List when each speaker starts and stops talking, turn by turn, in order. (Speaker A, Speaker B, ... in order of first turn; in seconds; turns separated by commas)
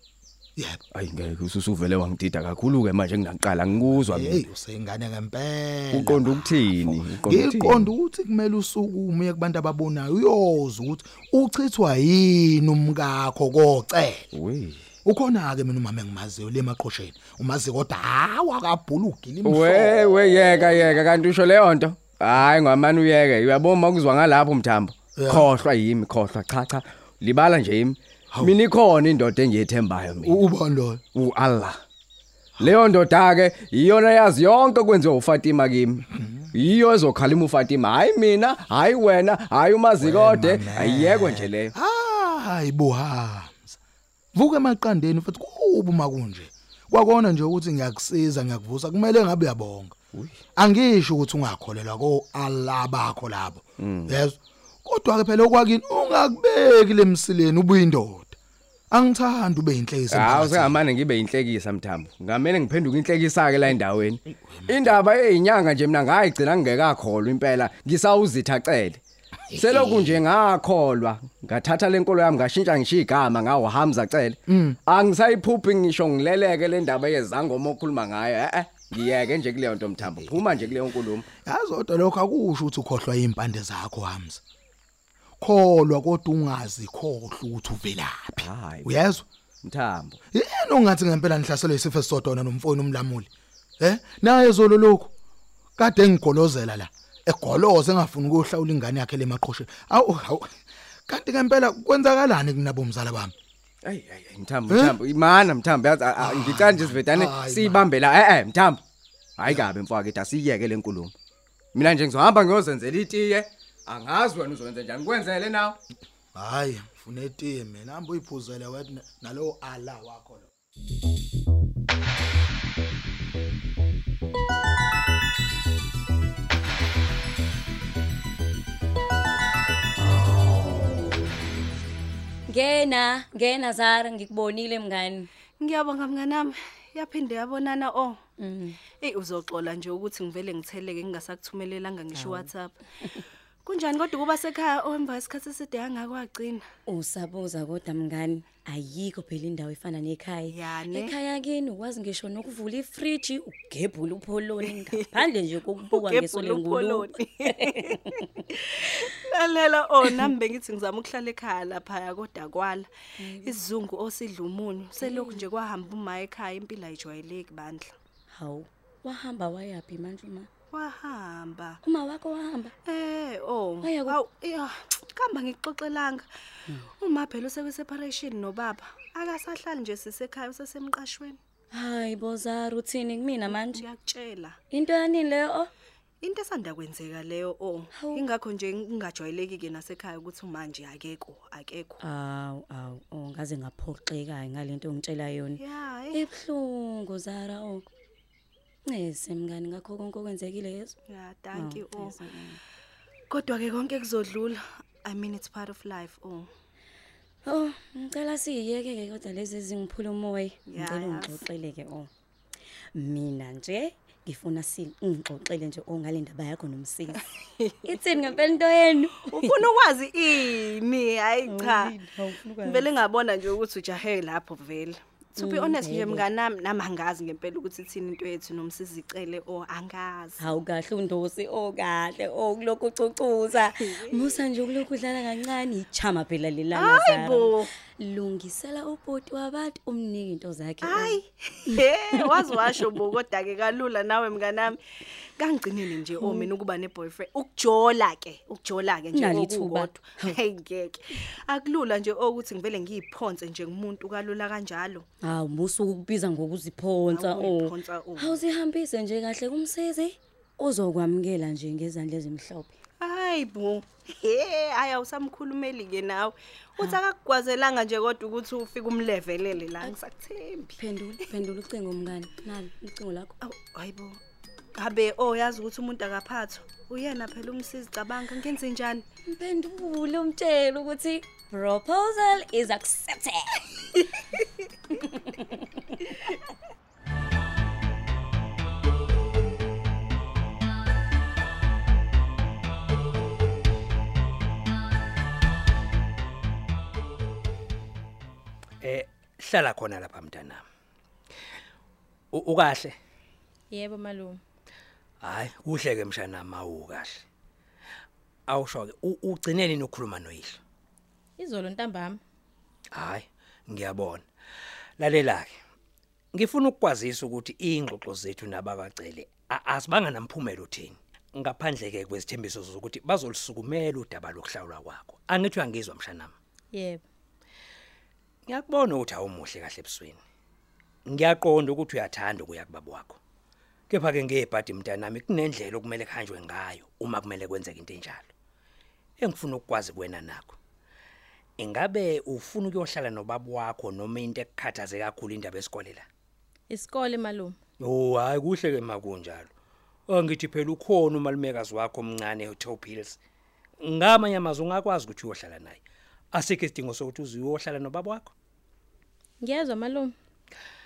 Speaker A: 0.6-0.8, Speaker B: 0.9-4.5, Speaker A: 4.0-14.3, Speaker B: 5.9-7.9, Speaker B: 14.3-14.8, Speaker A: 15.0-20.9, Speaker B: 19.4-30.4, Speaker A: 25.2-25.5, Speaker A: 28.3-28.6, Speaker A: 30.1-31.0, Speaker B: 31.1-31.8, Speaker B: 32.6-41.7, Speaker A: 36.1-36.6, Speaker A: 40.0-43.8, Speaker A: 44.3-50.0, Speaker B: 50.1-50.4, Speaker A: 50.6-58.4, Speaker B: 53.8-54.2, Speaker A: 58.9-60.9, Speaker B: 60.1-69.0, Speaker A: 64.3-65.0, Speaker A: 69.5-70.2, Speaker B: 69.5-81.3, Speaker A: 74.5-74.8, Speaker A: 81.4-84.4, Speaker A: 85.4-89.3, Speaker B: 88.4-89.0, Speaker B: 89.6-90.2, Speaker A: 90.3-93.3, Speaker A: 93.8-95.1, Speaker A: 95.8-100.5, Speaker A: 101.1-103.3, Speaker B: 103.8-108.8, Speaker A: 104.7-105.0, Speaker A: 106.2-107.9, Speaker B: 109.4-111.1, Speaker A: 109.4-109.7, Speaker B: 111.7-115.8, Speaker A: 116.3-120.5, Speaker C: 132.5-135.3, Speaker D: 135.6-138.2, Speaker C: 138.4-138.8, Speaker D: 138.8-142.8, Speaker D: 143.6-146.7, Speaker C: 146.9-157.1, Speaker D: 150.5-151.2, Speaker D: 154.6-158.0, Speaker D: 158.5-167.9, Speaker C: 163.2-163.6, Speaker C: 165.1-165.3, Speaker C: 168.3-170.5, Speaker D: 170.7-171.8, Speaker C: 171.8-172.7, Speaker D: 172.8-176.3, Speaker C: 173.9-174.1, Speaker D: 176.9-181.4, Speaker C: 181.7-183.8, Speaker D: 183.4-184.6, Speaker C: 184.7-185.7, Speaker D: 186.2-192.0, Speaker C: 187.9-188.2, Speaker C: 192.0-195.6, Speaker D: 195.6-196.2, Speaker C: 196.2-197.9, Speaker C: 198.9-200.9, Speaker D: 201.1-202.2, Speaker C: 201.6-202.6, Speaker D: 203.3-206.5, Speaker C: 207.5-212.1, Speaker D: 210.7-211.4, Speaker C: 212.9-217.1, Speaker D: 217.2-218.4, Speaker C: 217.9-219.5, Speaker D: 219.2-222.0, Speaker C: 221.6-222.8, Speaker D: 222.6-230.5, Speaker C: 225.4-226.2, Speaker C: 230.4-237.4, Speaker D: 233.6-234.5, Speaker D: 236.7-237.7, Speaker C: 238.0-241.0, Speaker D: 240.8-255.1, Speaker C: 249.2-249.8, Speaker C: 255.2-257.6, Speaker D: 257.1-258.4, Speaker C: 258.2-262.8, Speaker D: 263.0-270.8, Speaker C: 270.8-273.3, Speaker D: 273.4-274.2, Speaker D: 274.8-279.1, Speaker C: 279.3-283.7, Speaker E: 298.8-300.7, Speaker E: 302.3-303.0, Speaker F: 303.7-304.4, Speaker E: 305.2-307.3, Speaker E: 308.5-310.6, Speaker F: 311.4-312.2, Speaker E: 312.9-314.3, Speaker E: 315.0-315.6, Speaker E: 316.3-326.4, Speaker F: 326.7-327.0, Speaker E: 328.5-330.2, Speaker E: 331.1-333.2, Speaker E: 333.9-338.3, Speaker E: 339.2-340.6, Speaker E: 341.6-346.1, Speaker F: 346.7-347.6, Speaker E: 347.8-349.5, Speaker E: 350.1-353.2, Speaker E: 353.8-358.3, Speaker F: 359.4-360.1